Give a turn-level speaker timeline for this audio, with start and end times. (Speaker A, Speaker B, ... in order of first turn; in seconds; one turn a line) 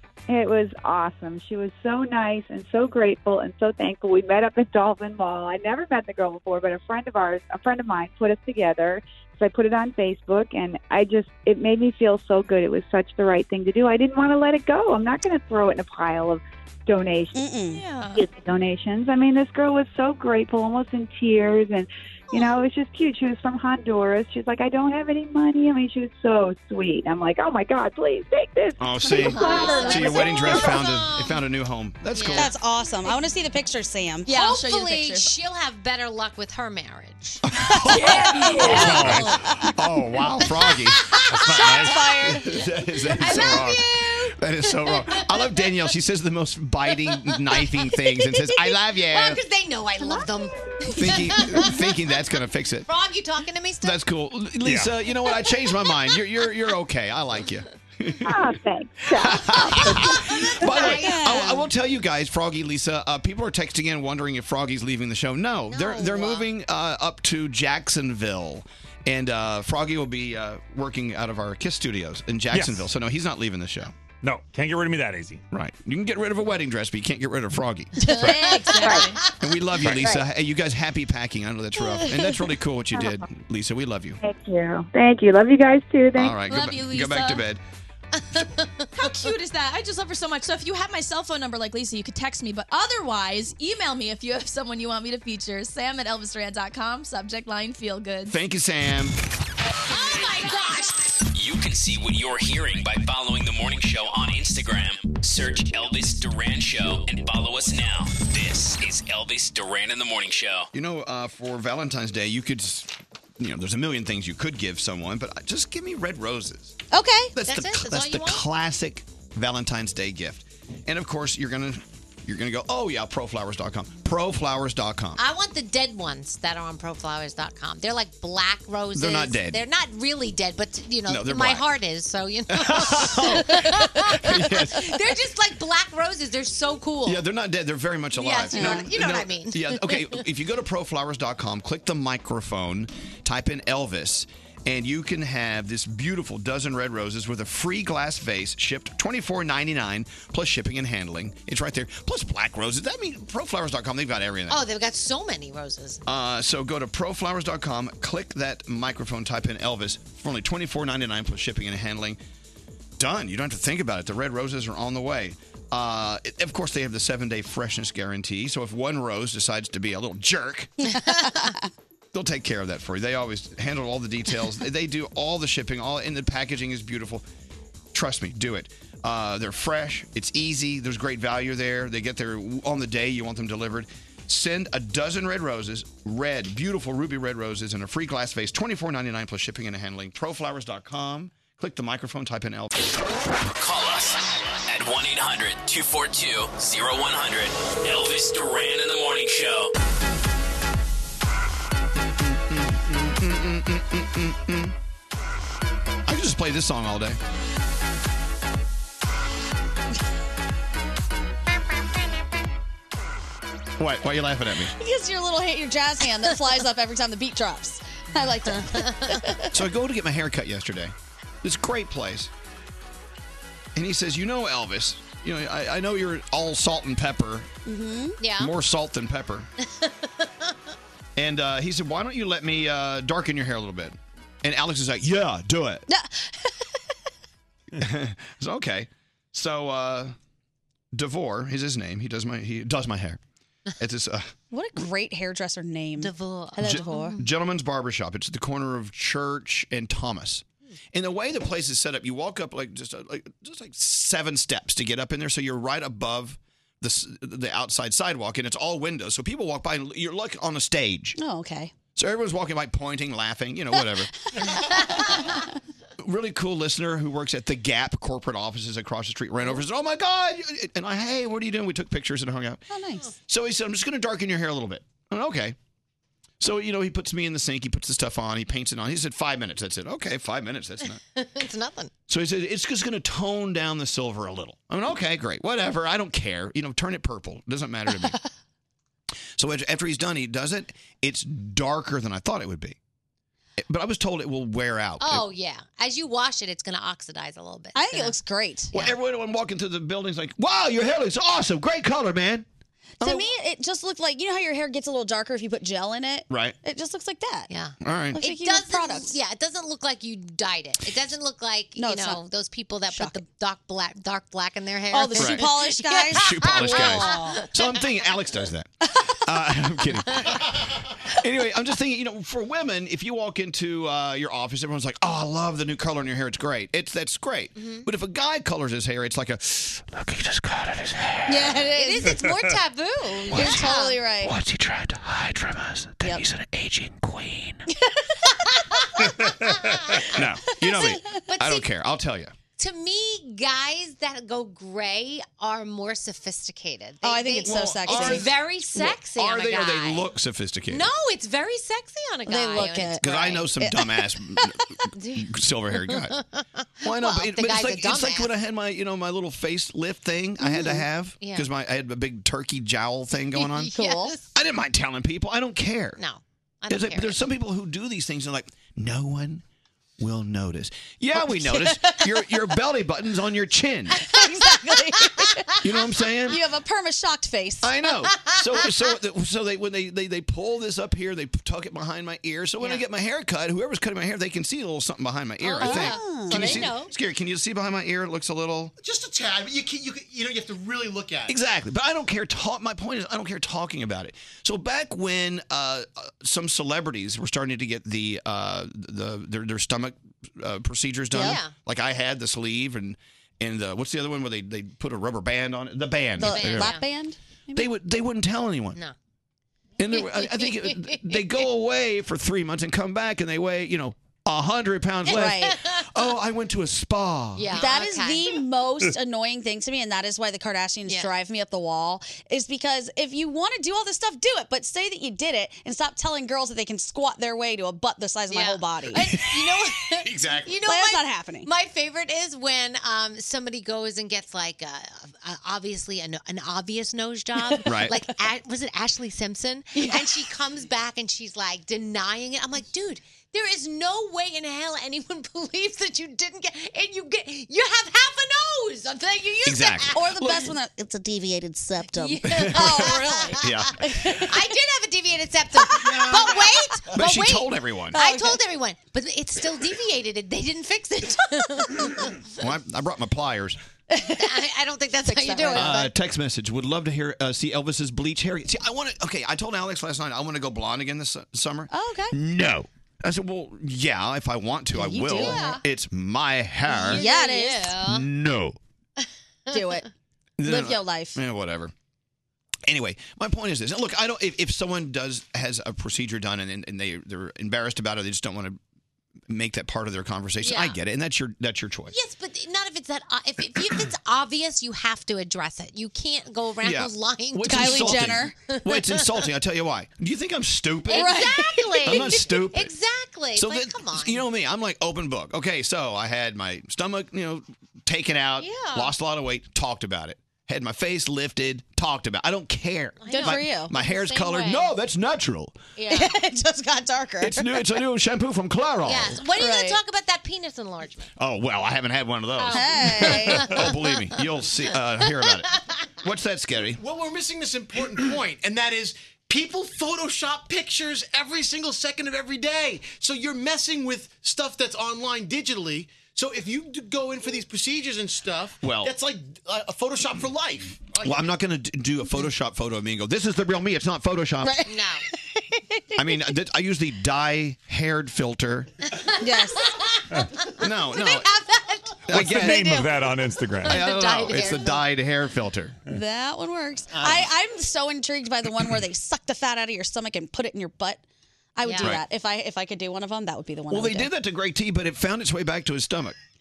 Speaker A: 0.3-17.4
Speaker B: 17.3-17.8
Speaker C: 17.7-18.2
Speaker A: 18.1-30.8
Speaker D: 28.8-32.5
Speaker C: 29.1-30.4
Speaker E: 29.5-31.4
Speaker E: 32.1-32.5
Speaker B: 32.3-34.3
Speaker C: 34.2-35.3
Speaker E: 34.3-37.4
Speaker D: 37.5-43.9
Speaker B: 37.7-39.7
Speaker C: 37.9-39.0
Speaker E: 38.6-39.2
Speaker F: 38.8-39.3
Speaker E: 40.6-42.6
Speaker B: 41.4-42.6
Speaker E: 43.2-45.7
Speaker D: 44.4-49.4
Speaker E: 47.1-51.9
Speaker D: 50.9-52.9
Speaker E: 52.9-54.0
Speaker D: 53.8-58.5
Speaker F: 54.6-54.9
Speaker E: 55.2-56.2
Speaker A: 58.2-60.2
Speaker D: 59.1-73.9
Speaker E: 60.7-61.2
Speaker B: 60.7-61.7
Speaker E: 65.7-66.5
Speaker F: 72.5-72.9
Speaker F: 74.2-75.4
Speaker D: 75.5-78.1
Speaker C: 78.1-79.2
Speaker E: 78.2-79.4
Speaker D: 79.4-84.2
Speaker F: 79.8-80.1
Speaker B: 82.0-82.4
Speaker A: 82.9-83.2
Speaker A: 84.2-86.4
Speaker D: 86.1-87.6
Speaker C: 86.5-87.4
Speaker E: 88.1-89.3
Speaker C: 89.0-98.3
Speaker D: 98.3-99.2
Speaker E: 99.9-101.1
Speaker G: 101.3-110.7
Speaker D: 110.7-116.8
Speaker B: 116.9-117.3
Speaker D: 117.3-125.2
Speaker E: 117.5-118.4
Speaker E: 125.2-137.2
Speaker D: 128.9-129.6
Speaker D: 131.1-131.7
Speaker D: 132.5-134.9
Speaker D: 137.1-154.6
Speaker E: 138.1-140.2
Speaker B: 138.5-138.9
Speaker E: 154.5-156.0
Speaker D: 156.1-162.2
Speaker D: 163.0-170.7
Speaker B: 170.9-171.6
Speaker D: 172.1-177.2
Speaker D: 177.9-192.9
Speaker G: 193.5-199.7
Speaker D: 202.2-204.7
Speaker D: 206.1-207.2
Speaker D: 213.8-214.7
Speaker B: 214.8-219.6
Speaker E: 218.5-219.2
Speaker D: 219.5-222.3
Speaker D: 223.7-227.5
Speaker B: 227.7-228.2
Speaker E: 228.2-228.5
Speaker D: 228.4-229.5
Speaker E: 229.7-230.5
Speaker D: 231.2-235.8
Speaker B: 235.9-236.8
Speaker D: 237.8-240.1
Speaker D: 240.9-243.2
Speaker D: 243.8-244.3
Speaker B: 244.5-247.2
Speaker E: 246.0-247.2
Speaker D: 246.6-261.2
Speaker B: 261.2-261.7
Speaker D: 261.9-264.1
Speaker B: 263.7-265.3
Speaker D: 266.0-272.6
Speaker B: 272.7-273.1
Speaker D: 273.3-275.6
Speaker D: 276.4-281.0
Speaker E: 281.1-281.9
Speaker D: 282.1-288.2
Speaker D: 289.4-292.8
Speaker D: 293.6-295.2
Speaker E: 295.0-298.1
Speaker B: 297.7-298.7
Speaker D: 298.7-302.4
Speaker B: 303.0-307.5
Speaker D: 303.0-303.3
Speaker E: 307.5-318.1
Speaker D: 307.8-308.2
Speaker B: 308.1-309.2
Speaker B: 311.8-312.2
Speaker B: 312.9-313.2
Speaker B: 314.9-317.4
Speaker D: 315.2-315.5
Speaker D: 316.1-318.7
Speaker D: 319.2-329.9
Speaker E: 327.6-327.9
Speaker B: 331.3-332.2
Speaker E: 331.6-334.0
Speaker B: 333.3-334.4
Speaker D: 333.3-333.6
Speaker E: 339.4-341.7
Speaker D: 340.1-342.3
Speaker B: 340.6-341.0
Speaker E: 342.6-350.1
Speaker B: 347.0-348.3
Speaker D: 347.4-350.9
Speaker E: 350.7-353.4
Speaker B: 352.3-353.0
Speaker D: 353.0-356.2
Speaker B: 353.6-353.9
Speaker E: 354.9-358.3
Speaker D: 356.8-363.7
Speaker B: 360.4-360.8
Speaker E: 361.2-361.5
Speaker E: 363.3-364.3
Speaker B: 363.7-364.1
Speaker D: 364.3-366.0
Speaker E: 366.0-367.2
Speaker D: 366.7-369.4
Speaker D: 370.0-374.1
Speaker B: 371.1-372.4
Speaker B: 374.0-375.5
Speaker D: 375.6-376.4
Speaker B: 376.2-377.7
Speaker D: 377.6-388.7
Speaker E: 378.3-378.7
Speaker E: 382.6-382.8
Speaker E: 385.4-386.9
Speaker B: 385.6-386.7
Speaker H: 388.8-391.3
Speaker D: 391.3-406.7
Speaker B: 401.1-401.4
Speaker E: 401.1-401.5
Speaker B: 406.2-407.7
Speaker E: 406.2-406.8
Speaker D: 407.5-408.8
Speaker D: 409.8-417.6
Speaker E: 409.9-411.5
Speaker B: 415.1-415.6
Speaker E: 415.1-415.9
Speaker E: 417.4-418.4
Speaker B: 417.5-429.2
Speaker E: 428.3-450.4
Speaker B: 430.6-431.5
Speaker B: 437.4-437.9
Speaker D: 437.6-437.9
Speaker B: 439.7-440.3
Speaker D: 449.4-450.4
Speaker B: 449.9-454.4
Speaker E: 451.9-462.1
Speaker D: 452.3-453.8
Speaker B: 455.6-456.7
Speaker D: 456.9-457.9
Speaker B: 457.9-458.4
Speaker D: 462.4-463.6
Speaker B: 463.9-464.3
Speaker E: 464.1-465.9
Speaker B: 465.0-465.9
Speaker D: 465.5-477.1
Speaker B: 471.7-472.1
Speaker B: 474.7-475.5
Speaker E: 475.1-475.6
Speaker E: 476.7-478.1
Speaker B: 476.8-477.8
Speaker D: 477.8-478.6
Speaker B: 479.5-479.9
Speaker D: 480.4-481.7
Speaker B: 480.4-481.2
Speaker D: 482.6-488.6
Speaker D: 489.3-491.9
Speaker E: 490.4-490.8
Speaker E: 491.9-499.3
Speaker D: 496.6-501.2
Speaker B: 497.4-498.3
Speaker E: 500.9-504.2
Speaker B: 500.9-502.2
Speaker D: 501.8-502.7
Speaker D: 503.4-515.6
Speaker E: 508.4-508.9
Speaker E: 513.0-514.7
Speaker B: 513.1-513.7
Speaker E: 515.8-516.1
Speaker B: 515.9-517.6
Speaker D: 517.2-519.2
Speaker E: 518.8-521.1
Speaker B: 519.3-519.8
Speaker D: 521.2-526.8
Speaker E: 522.4-524.0
Speaker B: 522.5-523.6
Speaker E: 525.0-525.5
Speaker H: 526.8-541.3
Speaker D: 538.6-538.9
Speaker D: 541.0-544.6
Speaker B: 544.4-544.7
Speaker E: 544.6-545.0
Speaker D: 546.0-548.7
Speaker E: 549.0-552.5
Speaker B: 549.2-549.7
Speaker D: 550.6-551.3
Speaker D: 552.1-552.9
Speaker F: 552.1-553.8
Speaker D: 553.6-555.8
Speaker E: 553.6-554.8
Speaker B: 555.9-561.0
Speaker B: 561.5-564.1
Speaker E: 561.6-562.0
Speaker D: 563.7-566.1